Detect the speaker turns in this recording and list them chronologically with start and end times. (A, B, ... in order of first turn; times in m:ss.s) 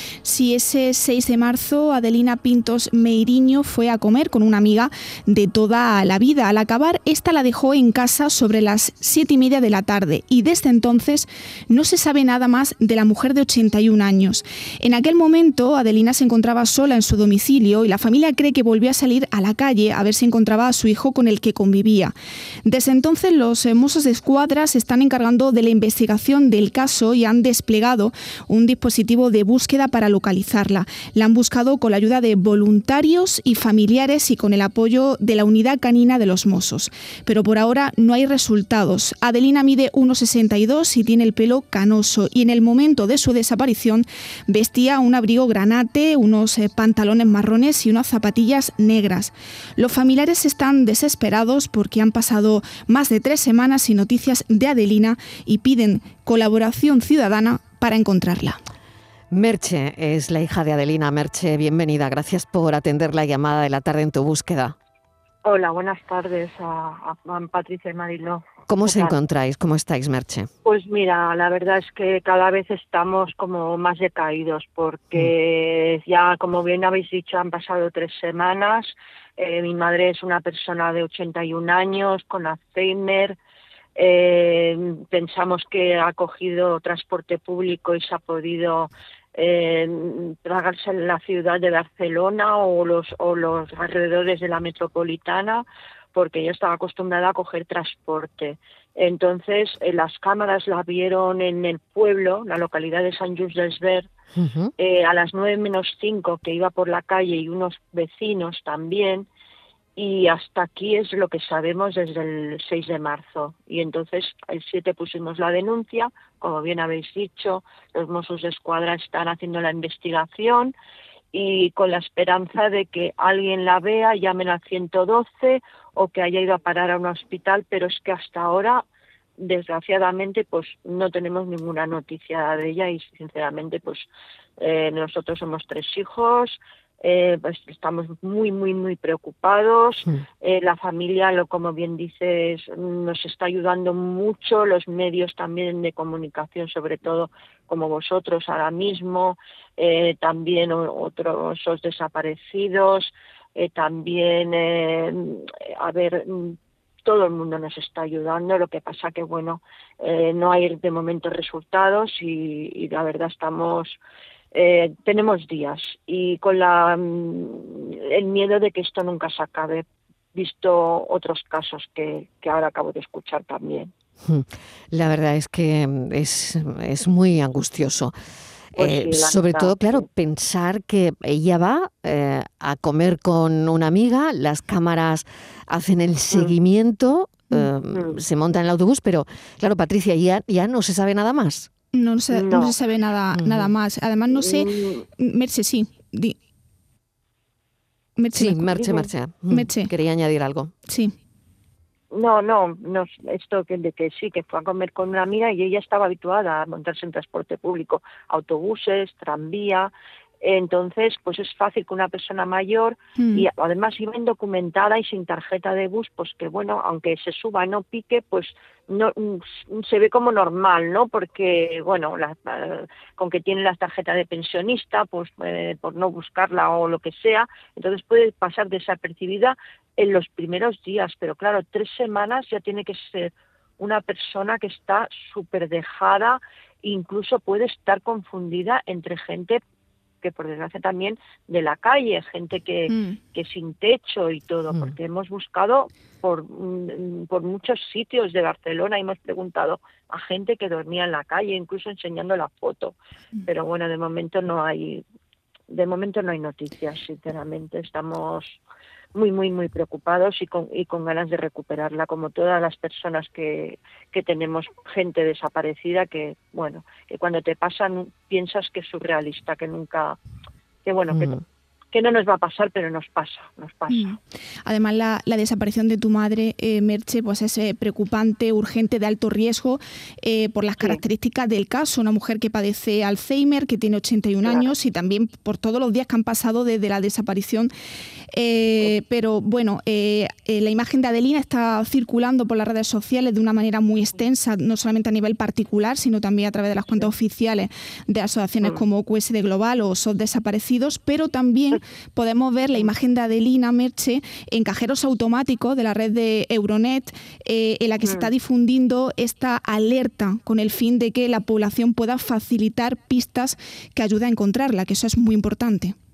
0:00.2-0:22.1 A
0:22.6-0:58.6 A
0:59.3-1:04.7 B
1:05.4-1:09.2 C
1:08.7-1:10.5 B
1:10.6-1:23.4 C
1:24.0-1:44.1 C
1:44.4-1:44.7 B
1:44.8-1:49.3 C
1:50.0-2:00.7 C
2:01.3-2:08.8 C
2:09.4-2:14.1 C
2:14.6-2:44.0 C
2:44.5-2:53.9 C
2:54.2-2:58.1 B
2:58.7-3:11.7 B
2:58.8-3:00.0 C
3:07.9-3:08.2 C
3:11.9-3:16.3 A
3:12.3-3:12.7 C
3:13.3-3:13.7 B
3:14.3-3:15.0 C
3:18.2-3:19.9 A
3:18.3-3:20.7 B
3:20.9-3:21.1 A
3:22.1-3:29.9 C
3:30.4-3:59.6 C
3:33.2-3:33.5 A
4:00.2-4:15.0 C
4:15.7-4:18.6 C
4:19.1-4:30.2 C
4:30.8-4:31.4 C
4:31.1-4:31.4 B
4:31.9-4:34.2 C
4:33.9-4:47.7 A
4:48.3-5:15.9 A
5:08.0-5:08.3 C